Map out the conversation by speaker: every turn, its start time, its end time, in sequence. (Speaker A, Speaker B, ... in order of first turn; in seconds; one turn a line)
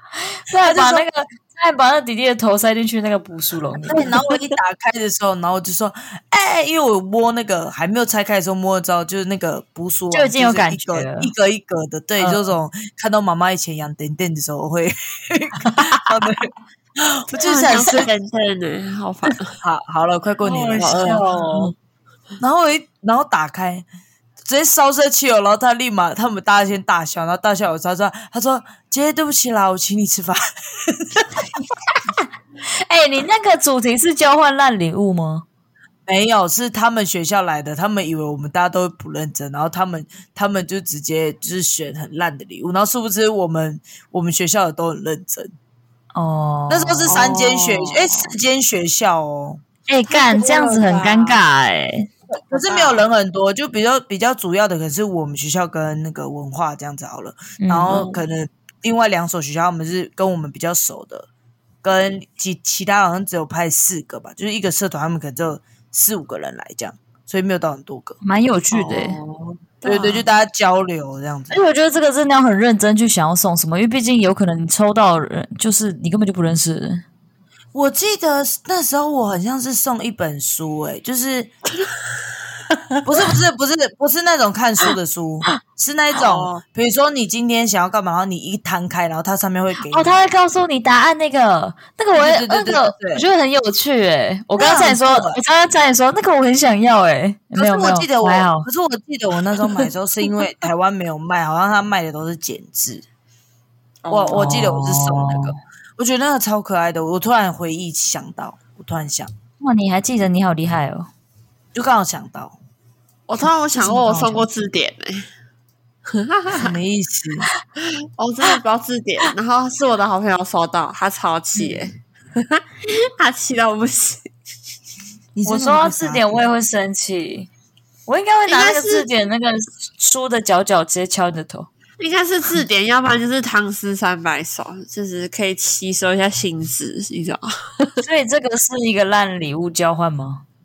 Speaker A: 0.5-4.2
Speaker B: 0.6-1.1
Speaker B: 3.9-18.1
Speaker A: 10.1-11.3
Speaker A: 12.2-12.5
Speaker C: 17.3-19.6
Speaker B: 19.6-21.2
Speaker A: 20.4-21.7
Speaker C: 20.8-21.2
Speaker B: 22.4-23.9
Speaker B: 24.5-31.4
Speaker A: 32.9-35.5
Speaker B: 36.1-45.5
Speaker A: 46.1-47.1
Speaker B: 46.7-49.6
Speaker C: 47.1-48.3
Speaker A: 49.9-52.1
Speaker C: 50.1-51.4
Speaker C: 52.5-53.0
Speaker B: 52.5-61.3
Speaker A: 57.6-58.1
Speaker C: 57.9-58.2
Speaker B: 61.8-68.2
Speaker A: 68.2-69.2
Speaker C: 68.7-70.3
Speaker B: 69.8-71.6
Speaker A: 71.5-77.0
Speaker B: 77.7-81.5
Speaker B: 83.0-90.2
Speaker C: 86.2-86.6
Speaker A: 89.8-98.7
Speaker B: 92.1-93.2
Speaker B: 94.6-95.4
Speaker B: 97.5-103.0
Speaker C: 104.0-104.7
Speaker B: 104.1-109.3
Speaker A: 104.3-105.5
Speaker A: 109.6-111.1
Speaker B: 111.8-112.6
Speaker C: 113.3-115.3
Speaker B: 113.8-114.5
Speaker C: 116.1-116.7
Speaker B: 116.5-117.5
Speaker C: 118.2-124.3
Speaker B: 125.3-126.5
Speaker A: 125.5-127.5
Speaker A: 128.1-131.7
Speaker C: 128.5-129.1
Speaker C: 132.0-138.0
Speaker A: 138.0-140.4